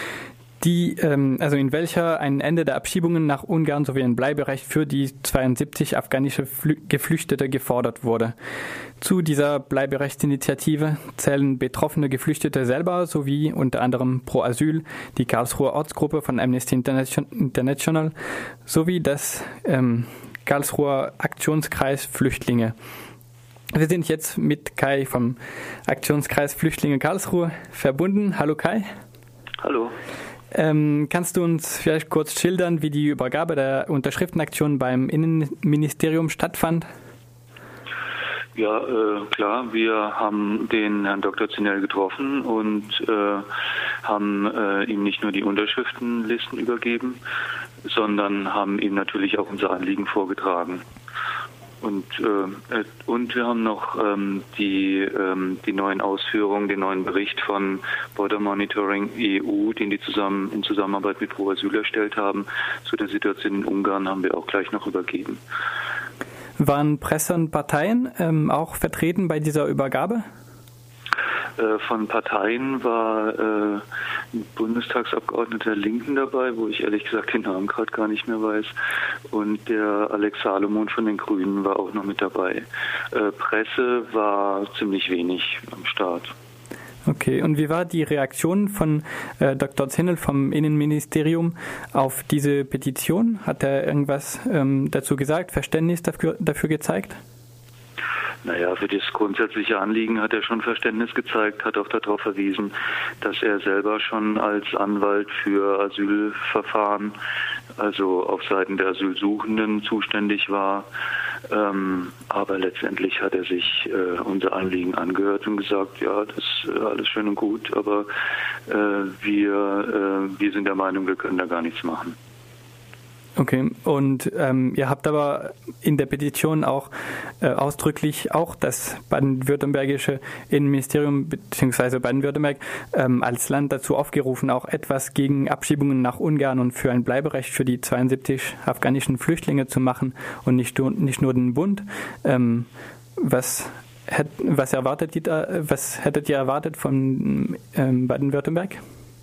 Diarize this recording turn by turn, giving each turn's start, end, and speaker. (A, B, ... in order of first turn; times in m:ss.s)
0:00.6-0:08.3 A
0:09.0-0:18.1 A
0:18.7-0:22.8 A
0:23.7-0:28.9 A
0:29.6-0:30.0 B
0:30.5-0:36.9 A
0:38.6-0:43.5 B
0:44.0-0:47.2 B
0:47.9-0:50.8 B
0:51.8-1:05.4 B
1:06.6-1:10.2 A
1:11.6-1:18.7 B
1:19.3-1:26.3 B
1:27.1-1:37.2 A
1:38.4-1:47.2 B
1:47.8-1:50.9 B
1:51.5-1:58.1 B
1:58.7-2:02.2 B
2:03.4-2:06.9 A
2:07.4-2:28.8 A